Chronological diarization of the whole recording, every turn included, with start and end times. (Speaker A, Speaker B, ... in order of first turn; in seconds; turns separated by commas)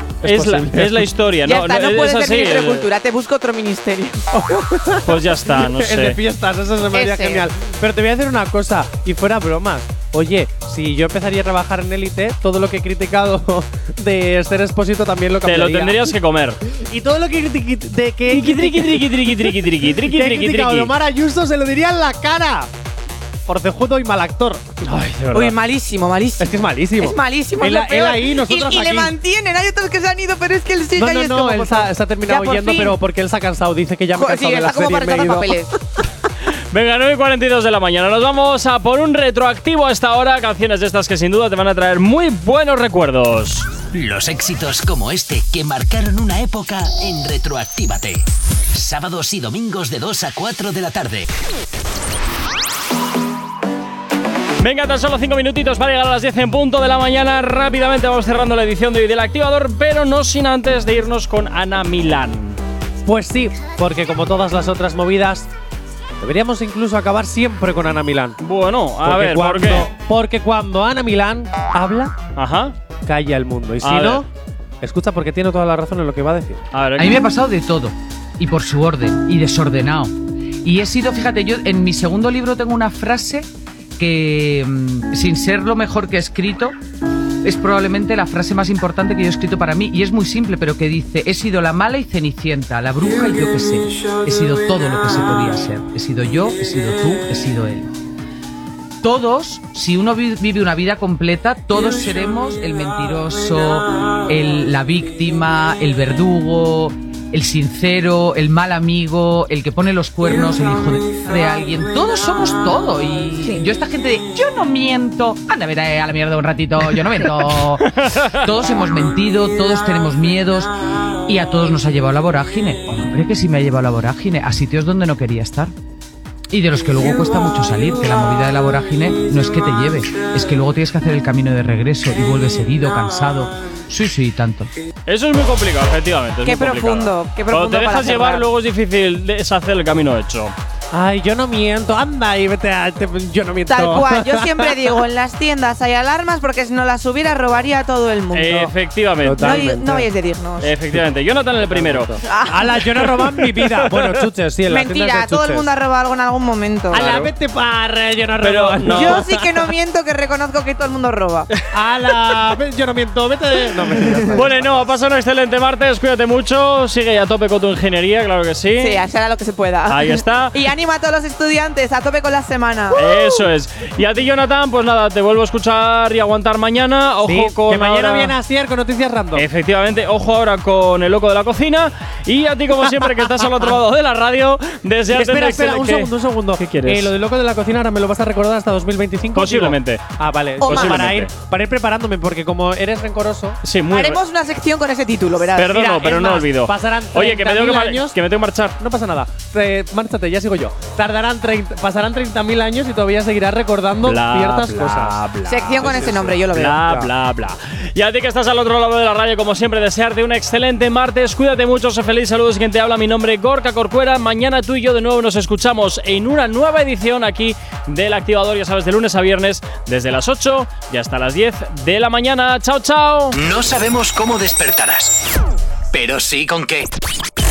Speaker A: 0.2-1.1, Speaker B: 0.2-2.9, Speaker C: 1.4-4.3, Speaker A: 4.3-16.1, Speaker B: 5.0-6.2, Speaker C: 6.9-7.5, Speaker B: 15.4-16.6, Speaker A: 16.7-22.7, Speaker B: 18.3-20.9, Speaker A: 23.5-24.6, Speaker B: 24.8-25.6, Speaker C: 25.3-32.9, Speaker A: 26.4-29.1, Speaker A: 30.9-35.5, Speaker C: 34.1-35.7, Speaker B: 36.7-43.7, Speaker D: 43.9-51.3, Speaker B: 54.6-62.6, Speaker A: 63.0-65.5, Speaker A: 66.2-68.4, Speaker B: 68.4-69.9, Speaker A: 69.0-72.2, Speaker B: 72.3-72.7, Speaker A: 73.0-74.3, Speaker B: 73.8-74.2, Speaker A: 74.8-76.6, Speaker B: 76.7-77.2, Speaker E: 77.0-83.5, Speaker E: 84.0-86.8, Speaker E: 87.4-97.9, Speaker E: 99.0-120.7, Speaker B: 117.8-118.4, Speaker E: 121.3-125.7, Speaker E: 126.5-134.7, Speaker B: 135.1-140.6, Speaker C: 136.4-138.5, Speaker A: 140.9-145.0, Speaker C: 143.7-148.7, Speaker B: 148.3-149.7, Speaker A: 149.2-150.1, Speaker C: 149.4-150.7, Speaker B: 150.6-152.2, Speaker A: 151.6-155.7, Speaker C: 152.3-153.1, Speaker B: 153.7-154.0, Speaker C: 154.7-157.1, Speaker A: 156.9-159.7, Speaker B: 156.9-157.3, Speaker B: 158.4-159.2, Speaker C: 158.9-161.5, Speaker A: 161.7-164.6, Speaker B: 164.3-169.0, Speaker C: 168.8-173.0, Speaker B: 169.9-170.5, Speaker B: 172.9-178.3, Speaker A: 177.2-179.4, Speaker B: 179.3-187.1, Speaker A: 185.1-193.6, Speaker B: 189.3-190.0, Speaker B: 190.6-191.3, Speaker C: 190.6-191.1, Speaker B: 193.6-194.2, Speaker C: 193.9-196.4, Speaker B: 195.5-198.8, Speaker A: 195.7-198.2, Speaker A: 198.8-205.2, Speaker B: 204.0-223.3, Speaker C: 205.4-206.8, Speaker A: 205.8-207.1, Speaker D: 223.3-225.2, Speaker D: 225.9-226.9